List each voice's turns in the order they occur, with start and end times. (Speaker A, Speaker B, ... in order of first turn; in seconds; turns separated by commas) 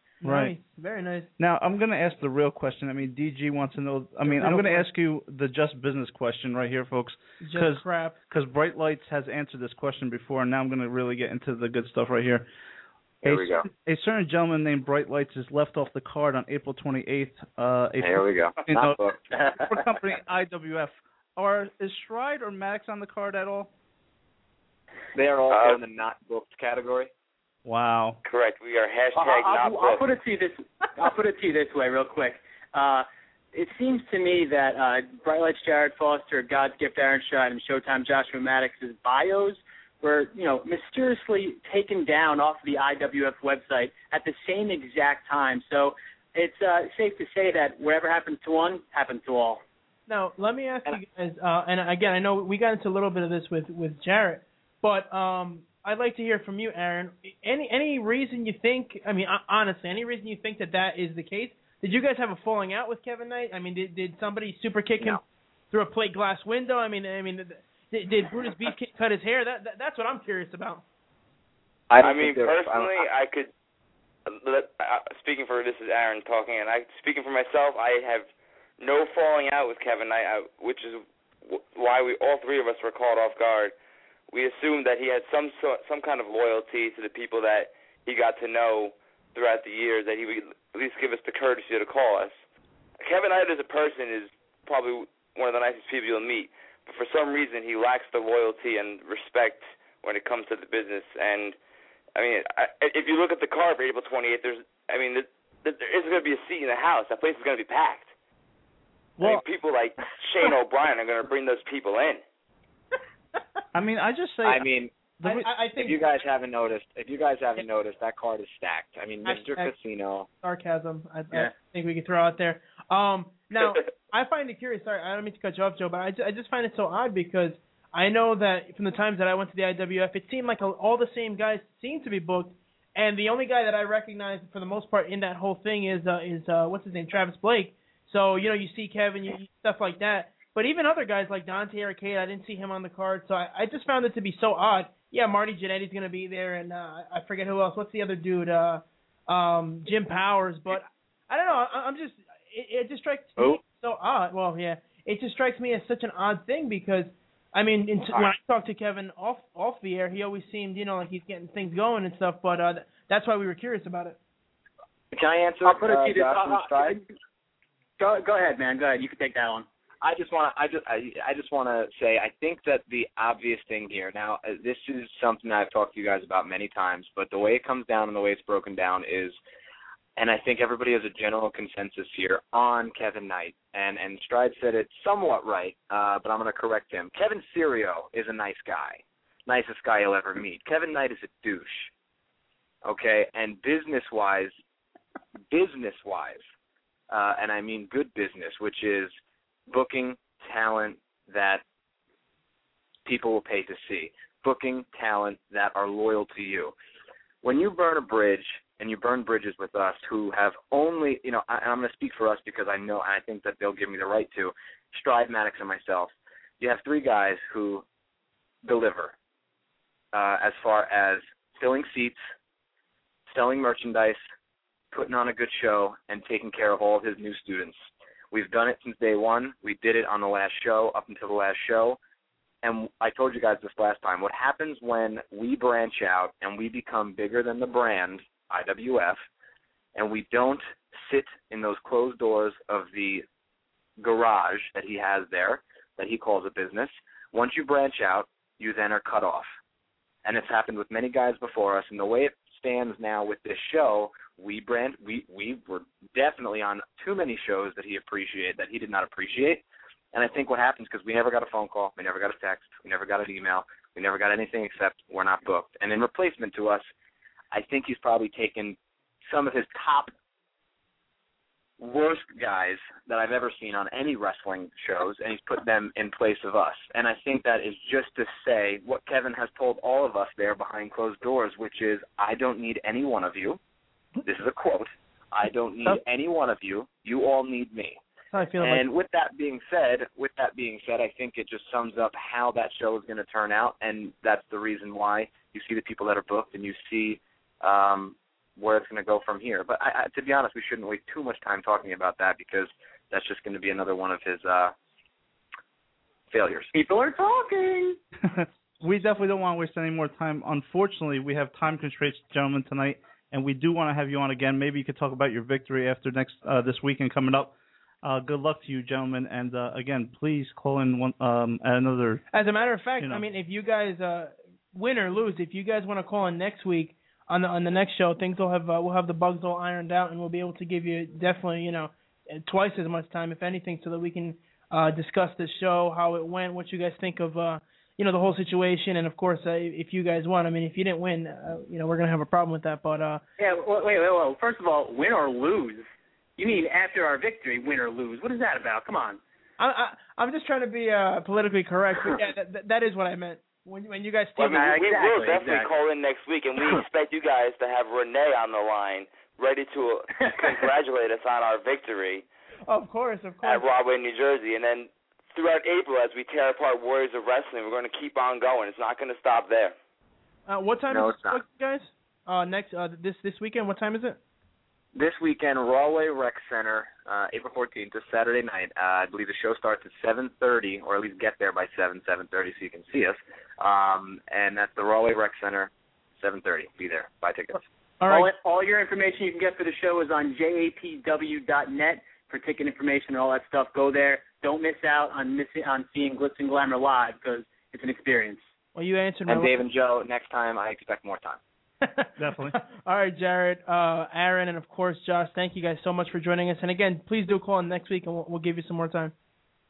Speaker A: 0.2-1.3, Speaker B: 0.2-0.6, Speaker B: 1.4-12.5, Speaker A: 4.2-4.9, Speaker A: 7.4-8.2, Speaker B: 13.2-19.0, Speaker C: 13.2-13.7, Speaker C: 18.0-19.2, Speaker B: 19.6-23.7, Speaker C: 25.1-27.1, Speaker D: 25.5-25.8, Speaker B: 27.6-28.2, Speaker D: 28.2-30.1, Speaker E: 29.1-49.6, Speaker A: 50.1-70.8, Speaker C: 71.9-73.0, Speaker D: 72.0-73.5, Speaker D: 74.3-78.3, Speaker D: 78.8-83.7, Speaker D: 84.3-92.4, Speaker D: 93.0-101.6, Speaker D: 102.2-108.1, Speaker B: 109.2-109.4, Speaker D: 109.2-112.2, Speaker B: 113.7-114.7, Speaker C: 114.4-114.9, Speaker B: 115.2-115.5, Speaker A: 115.2-116.0, Speaker C: 115.8-120.3, Speaker A: 119.2-119.7, Speaker A: 120.4-164.2, Speaker C: 165.1-167.0, Speaker E: 165.6-167.0, Speaker E: 168.0-169.7, Speaker C: 170.0-179.4, Speaker C: 180.2-191.9, Speaker C: 192.8-194.5, Speaker C: 195.5-196.4, Speaker C: 197.1-199.2, Speaker C: 199.7-201.6, Speaker C: 203.1-206.7, Speaker C: 207.4-217.8, Speaker C: 218.6-219.2, Speaker C: 220.1-222.2, Speaker C: 223.3-224.2, Speaker C: 224.9-232.0, Speaker C: 232.6-239.2, Speaker C: 240.0-243.2, Speaker C: 244.0-249.5, Speaker C: 250.2-259.6, Speaker C: 260.1-266.9, Speaker C: 267.5-270.1, Speaker C: 271.8-283.6, Speaker C: 284.2-288.0, Speaker A: 288.3-288.9, Speaker C: 288.6-304.7, Speaker C: 306.3-306.7, Speaker E: 306.7-308.0, Speaker B: 308.3-317.5, Speaker B: 318.0-322.2, Speaker A: 322.3-343.2, Speaker E: 343.4-345.8, Speaker E: 346.4-349.2, Speaker A: 349.6-354.8, Speaker D: 354.4-362.2, Speaker E: 354.5-355.7, Speaker A: 362.7-363.6, Speaker D: 363.4-369.8, Speaker A: 370.5-374.2, Speaker C: 370.9-371.4, Speaker C: 374.9-387.6, Speaker A: 388.0-388.3, Speaker E: 388.1-398.4, Speaker A: 398.8-399.6, Speaker C: 399.3-401.4, Speaker A: 401.8-409.1, Speaker B: 402.2-402.6